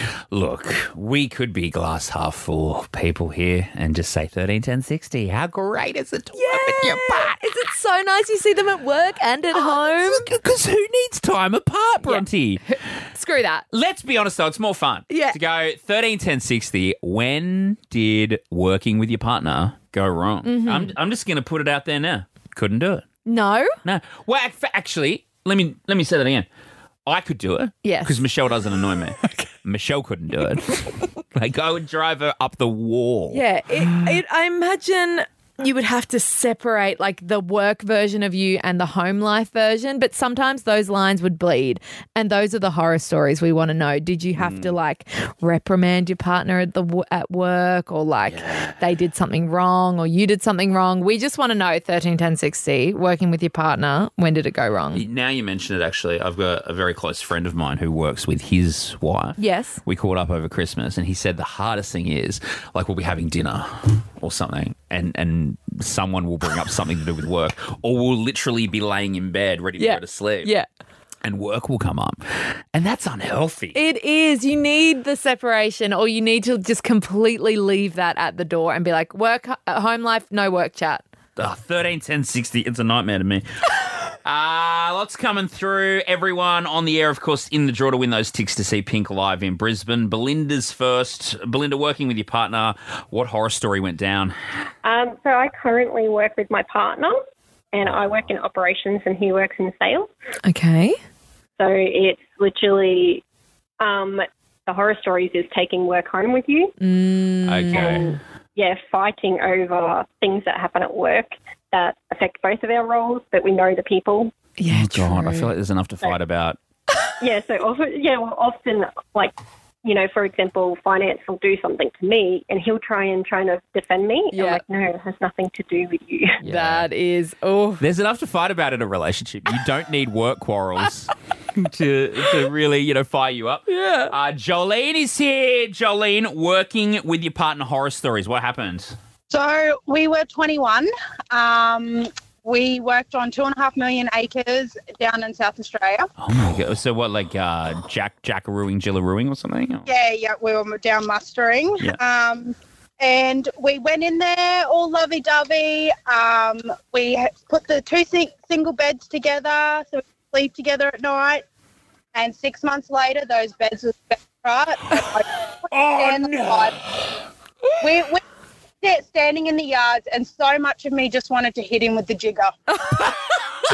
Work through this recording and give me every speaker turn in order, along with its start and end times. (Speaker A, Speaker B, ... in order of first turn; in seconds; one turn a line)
Speaker A: 0.3-7.4
Speaker B: 6.3-10.3
Speaker A: 9.5-12.6
Speaker B: 12.0-13.6
Speaker A: 13.7-23.1
Speaker B: 15.1-15.4
Speaker B: 20.4-20.9
Speaker B: 23.2-23.7
Speaker A: 23.8-26.4
Speaker A: 27.1-34.0
Speaker B: 27.8-28.2
Speaker B: 33.3-55.0
Speaker A: 44.4-44.7
Speaker A: 48.3-48.8
Speaker A: 54.9-70.5
Speaker B: 59.4-59.8
Speaker B: 69.8-70.7
Speaker A: 71.2-72.2
Speaker A: 72.7-73.8
Speaker B: 73.7-81.0
Speaker A: 81.4-94.3
Speaker C: 94.8-97.2
Speaker C: 97.7-100.1
Speaker B: 100.4-101.0
Speaker C: 101.6-103.2
Speaker C: 103.8-106.7
Speaker B: 106.8-108.1
Speaker A: 107.5-108.1
Speaker C: 107.7-114.3
Speaker B: 114.6-115.5
Speaker A: 114.7-116.6
Speaker C: 117.2-126.4
Speaker B: 124.3-124.6
Speaker B: 126.4-127.8
Speaker A: 126.4-126.9
Speaker A: 127.8-138.9
Speaker B: 133.7-134.1
Speaker D: 139.3-146.1
Speaker A: 146.2-149.9
Speaker D: 149.8-161.4
Speaker D: 162.1-166.8
Speaker A: 165.7-166.7
Speaker D: 167.8-168.2
Speaker D: 168.8-172.6
Speaker B: 172.8-173.1